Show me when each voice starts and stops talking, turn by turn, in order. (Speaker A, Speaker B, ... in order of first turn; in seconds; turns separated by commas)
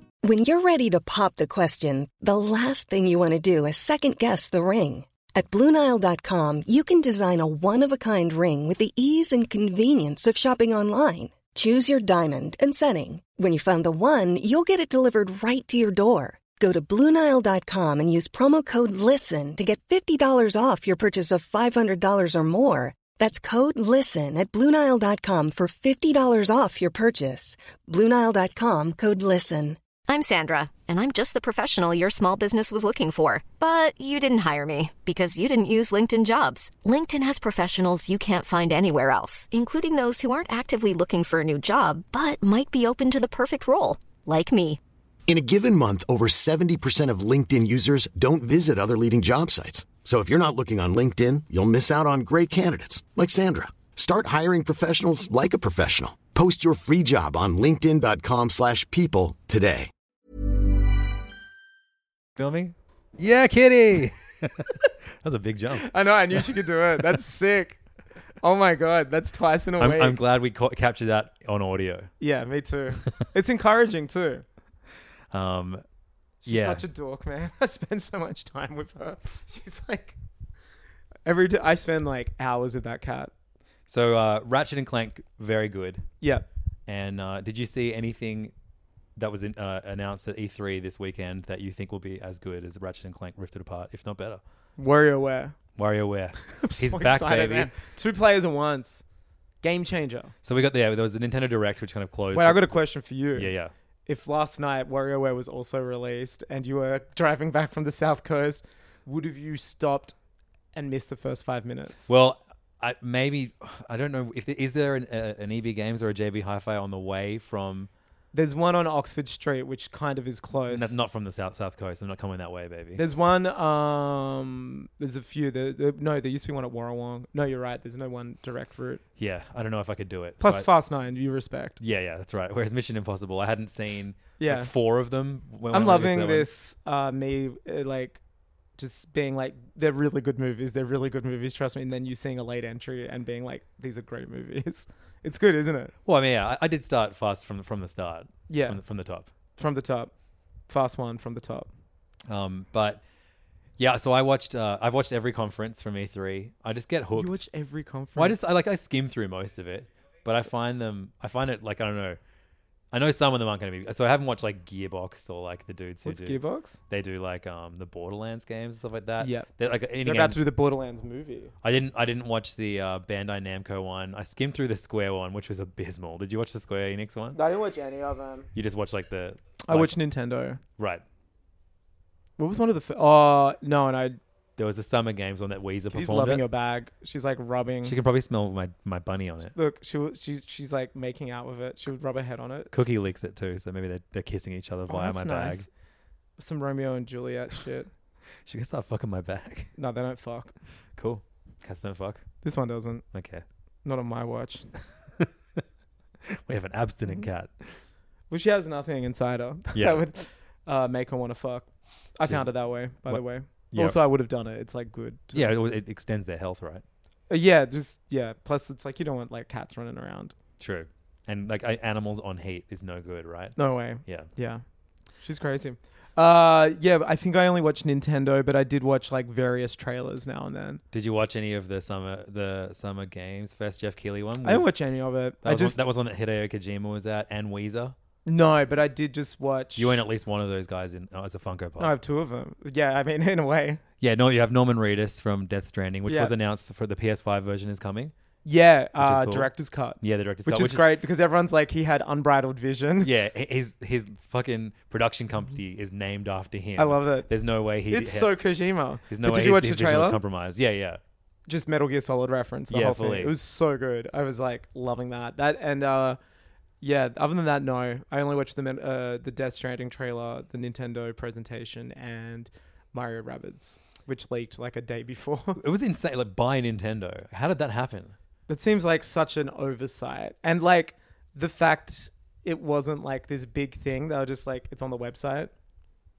Speaker A: 0.2-29.8, Speaker B: 30.1-44.8, Speaker C: 45.3-59.9, Speaker D: 62.4-66.5, Speaker E: 65.8-67.8, Speaker E: 68.4-70.2, Speaker D: 69.8-72.1, Speaker E: 72.2-74.4, Speaker D: 75.3-75.8, Speaker E: 76.4-80.2, Speaker D: 76.5-76.8, Speaker E: 81.3-83.3, Speaker D: 83.9-86.1, Speaker E: 86.2-86.5, Speaker D: 86.9-88.5, Speaker D: 89.2-94.4, Speaker E: 94.8-95.6, Speaker D: 95.8-97.7, Speaker E: 96.5-99.0, Speaker E: 99.6-100.3, Speaker D: 100.4-102.7, Speaker E: 102.3-103.5, Speaker D: 103.3-103.7, Speaker E: 104.1-110.2, Speaker E: 110.7-112.1, Speaker D: 112.1-117.9, Speaker E: 118.3-120.9, Speaker D: 120.7-123.0, Speaker E: 123.0-129.0, Speaker D: 129.2-130.7, Speaker E: 130.4-131.8, Speaker D: 131.8-136.5, Speaker E: 134.4-134.7, Speaker E: 135.7-138.2, Speaker E: 138.8-145.9, Speaker D: 146.1-149.3, Speaker E: 148.5-148.8, Speaker E: 149.6-150.1, Speaker E: 150.7-151.7, Speaker D: 152.3-153.0, Speaker D: 153.8-157.4, Speaker E: 157.2-158.4, Speaker D: 158.2-162.2, Speaker D: 162.9-170.4, Speaker E: 166.1-166.8, Speaker E: 169.2-169.5, Speaker E: 170.0-171.5, Speaker D: 171.6-177.4, Speaker E: 177.3-178.5, Speaker D: 178.6-180.0, Speaker E: 179.7-180.6, Speaker D: 180.8-181.0, Speaker E: 182.4-184.2, Speaker D: 184.6-186.4, Speaker E: 185.9-188.0, Speaker D: 187.8-189.6, Speaker E: 189.6-192.8, Speaker D: 192.7-195.7, Speaker E: 194.9-195.7, Speaker E: 196.4-197.9, Speaker D: 198.5-199.7, Speaker E: 199.8-200.5, Speaker D: 201.0-202.3, Speaker E: 202.4-203.0, Speaker D: 203.1-203.4, Speaker E: 203.8-204.7, Speaker D: 205.2-205.6, Speaker D: 206.3-207.8, Speaker E: 208.3-215.6, Speaker D: 209.7-210.0, Speaker D: 212.2-214.0, Speaker D: 215.3-216.8, Speaker E: 217.3-220.3, Speaker D: 220.6-224.3, Speaker E: 223.6-224.6, Speaker E: 225.2-230.8, Speaker D: 230.9-234.7, Speaker E: 234.4-235.8, Speaker D: 235.4-238.0, Speaker E: 238.3-240.0, Speaker D: 239.8-241.9, Speaker E: 241.8-243.8, Speaker D: 244.0-248.1, Speaker E: 246.1-246.3, Speaker E: 248.4-253.1, Speaker D: 249.0-250.8, Speaker D: 253.0-258.3, Speaker E: 256.8-257.3, Speaker E: 257.9-260.2, Speaker D: 259.1-261.0, Speaker E: 261.5-266.2, Speaker D: 262.7-263.4, Speaker E: 266.8-275.6, Speaker D: 275.6-278.2, Speaker E: 278.5-285.5